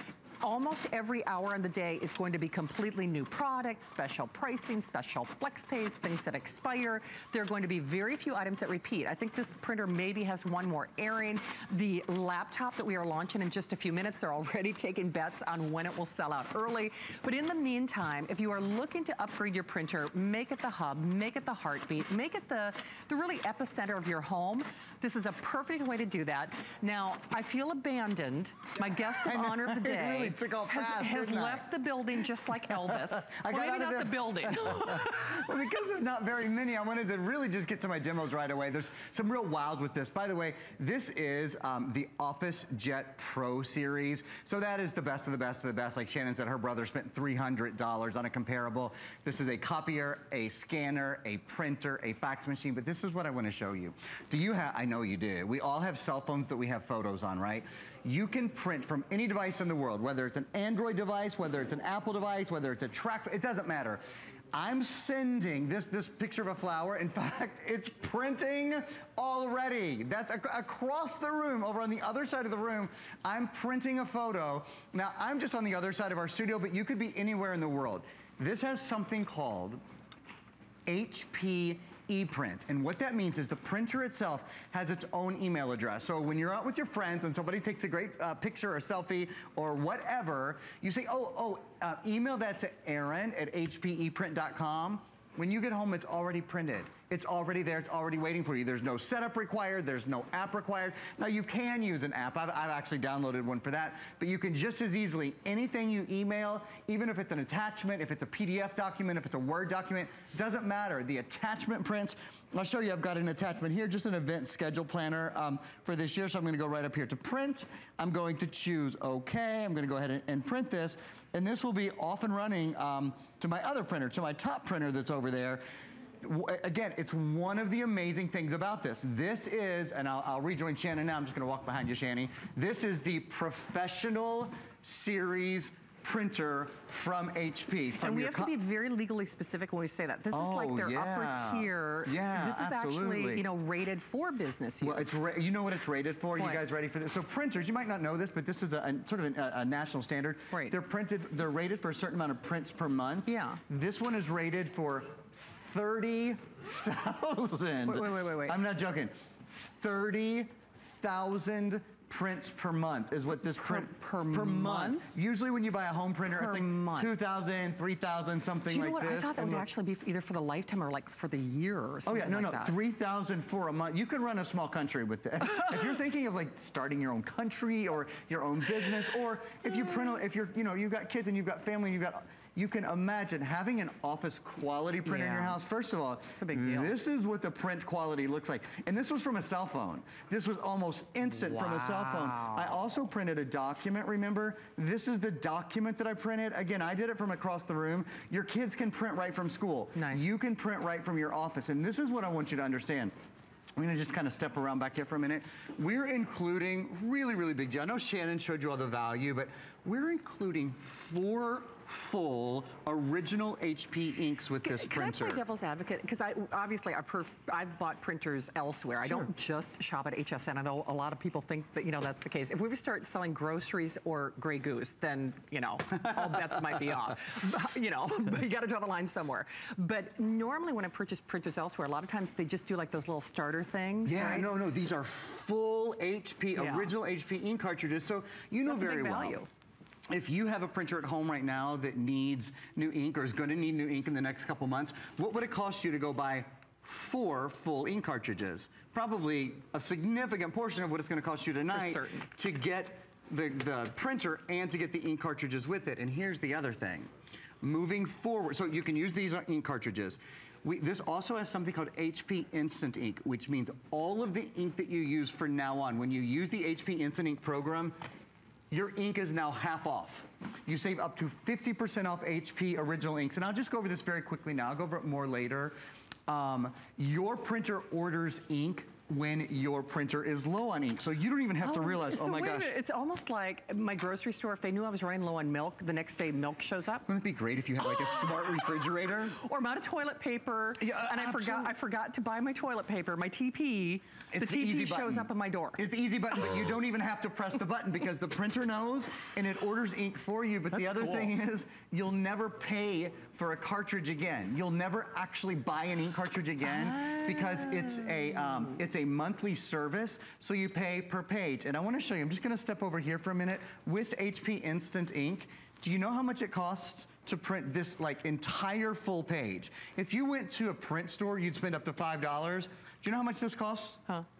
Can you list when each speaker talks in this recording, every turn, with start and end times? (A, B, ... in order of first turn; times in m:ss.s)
0:00.4-0:35.7 A
0:29.2-0:31.7 B
0:32.8-1:04.0 B
1:04.5-1:19.8 B
1:20.9-2:05.6 B
2:06.2-2:18.5 B
2:18.0-2:25.2 A
2:20.3-2:23.4 B
2:24.8-2:49.7 B
2:26.4-2:26.6 A
2:30.5-2:30.8 A
2:33.3-2:33.6 A
2:37.9-2:38.6 A
2:43.6-2:45.1 A
2:46.3-2:47.1 A
2:48.7-2:52.8 A
2:52.1-3:23.1 B
3:05.0-3:05.6 A
3:06.4-3:07.0 A
3:11.3-3:12.8 A
3:20.0-3:20.4 A
3:23.8-3:35.4 B
3:34.6-3:54.5 A
3:54.1-3:59.4 B
3:56.6-3:57.0 A
3:58.6-3:59.5 A
4:00.1-4:17.1 B
4:11.7-4:12.3 A
4:17.6-4:28.0 B
4:28.7-4:35.8 B
4:36.3-4:42.7 B
4:41.6-4:47.1 A
4:47.1-4:49.4 B
4:47.8-4:55.8 A
4:50.8-4:51.8 B
4:54.3-5:24.0 B
5:00.7-5:01.3 A
5:06.6-5:08.8 A